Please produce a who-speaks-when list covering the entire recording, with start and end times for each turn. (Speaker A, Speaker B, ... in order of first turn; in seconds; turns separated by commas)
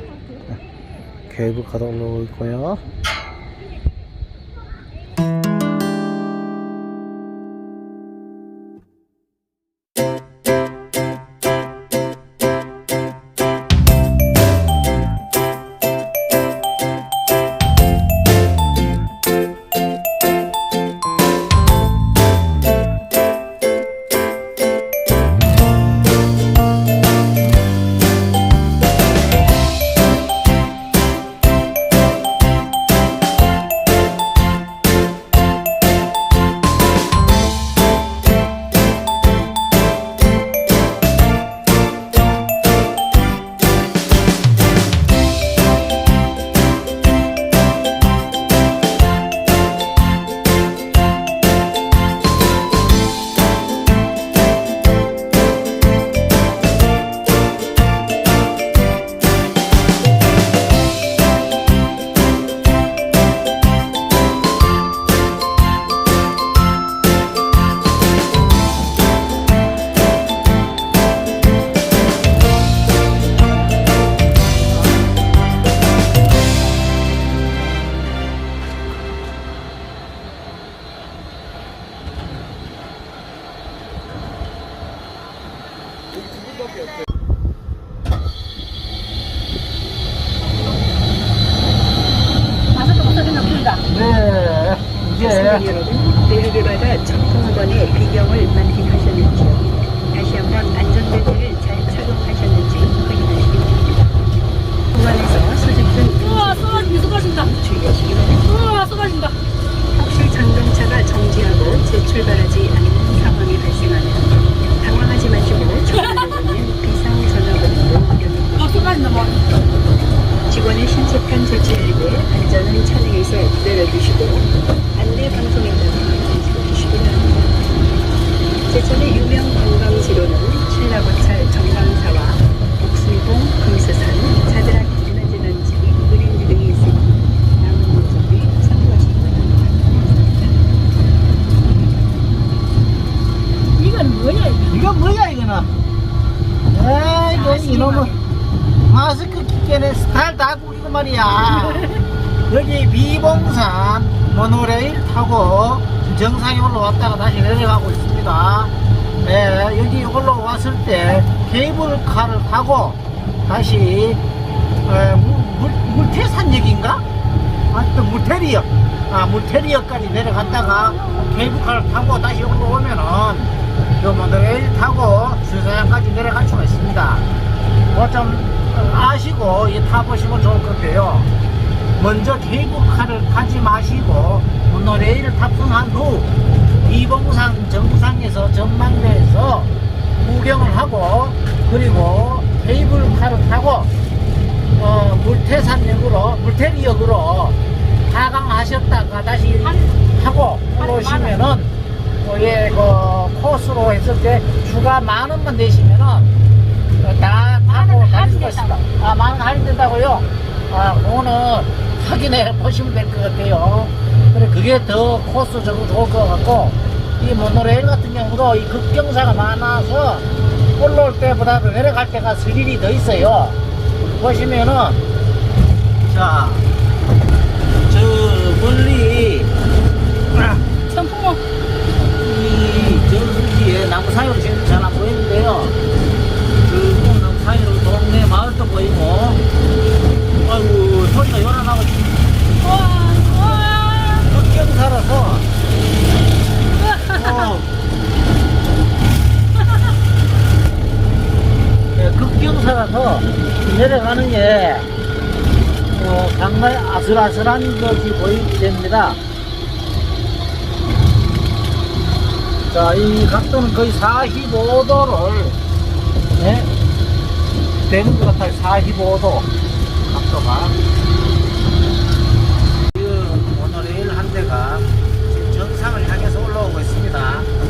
Speaker A: 1.3-2.8, Speaker B: 92.7-93.8, Speaker A: 93.9-95.7, Speaker C: 95.1-104.1, Speaker C: 104.9-108.5, Speaker B: 106.2-107.5, Speaker B: 108.5-109.4, Speaker C: 109.9-119.2, Speaker B: 118.6-119.4, Speaker C: 120.5-127.5, Speaker C: 128.7-140.5, Speaker B: 143.8-144.8, Speaker A: 144.7-145.7, Speaker A: 146.7-148.2, Speaker B: 147.3-148.2, Speaker A: 148.8-158.7, Speaker A: 159.2-164.2, Speaker A: 164.8-167.0, Speaker A: 167.7-177.3, Speaker A: 177.9-181.3, Speaker A: 182.0-186.3, Speaker A: 186.8-193.9, Speaker A: 194.8-206.3, Speaker B: 200.8-201.4, Speaker A: 207.0-225.0, Speaker B: 207.7-208.8, Speaker A: 226.0-226.7, Speaker A: 227.9-229.5, Speaker A: 230.3-230.6, Speaker B: 230.9-231.4, Speaker A: 232.0-235.8, Speaker A: 236.7-239.4, Speaker A: 240.4-242.2, Speaker B: 242.6-244.3, Speaker A: 244.3-245.5, Speaker B: 246.8-247.5, Speaker A: 247.0-247.7, Speaker A: 251.9-254.9, Speaker A: 255.9-259.2, Speaker A: 262.7-265.6, Speaker A: 266.4-266.7, Speaker A: 267.9-269.5, Speaker A: 270.1-270.8, Speaker A: 272.9-277.5